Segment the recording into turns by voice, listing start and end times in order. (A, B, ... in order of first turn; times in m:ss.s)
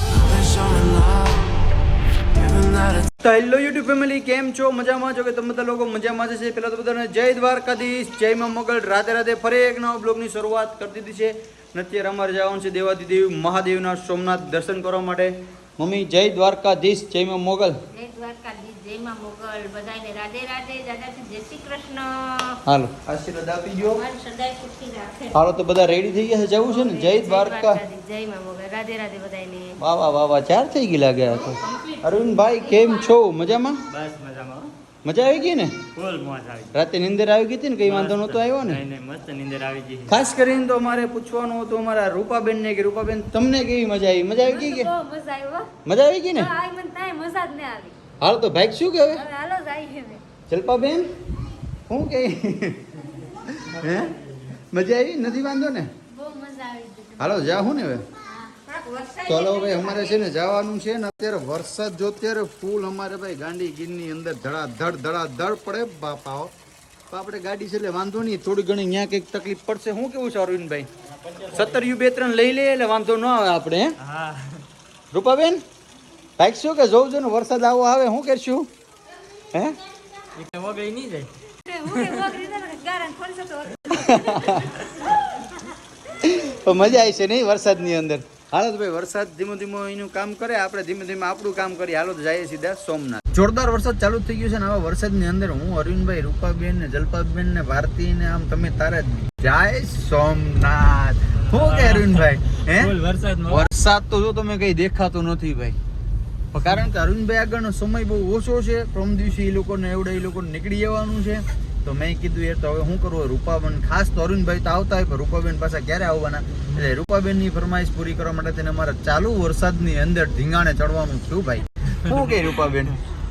0:00.4-0:01.1 A
0:03.2-0:17.8 B
0:17.9-0:22.6 C
0:22.7-0:24.0 B
0:24.0-0:25.4 C
0:25.3-0:27.8 B
0:26.7-0:29.8 C
0:29.8-0:33.8 B
0:31.7-0:33.1 C
0:33.9-0:34.7 A
0:35.0-0:35.8 B
0:36.0-0:36.8 A
0:36.7-0:38.8 B
0:37.9-0:40.2 A
0:40.1-0:44.9 B
0:44.4-0:45.7 C
0:45.9-0:46.5 B
0:46.4-0:48.0 C
0:48.2-0:49.2 B
0:49.1-0:50.2 C
0:50.5-0:51.1 B
0:51.9-0:52.9 B
0:53.5-0:54.2 B
0:54.7-0:55.9 B
0:56.1-0:57.4 C
0:57.2-0:58.0 B
0:58.4-1:00.2 C
0:59.3-1:06.5 B
1:07.1-1:10.9 B
1:11.3-1:11.8 A
1:11.5-1:14.0 B
1:14.0-1:14.6 A
1:15.1-1:15.6 B
1:16.4-1:18.7 B
1:20.4-1:21.3 A
1:21.6-1:24.6 C
1:21.9-1:22.3 A
1:23.9-1:24.8 B
1:26.2-1:42.9 B
1:41.4-1:43.7 A
1:43.5-1:45.8 B
1:46.5-2:03.0 B
2:02.1-2:02.5 A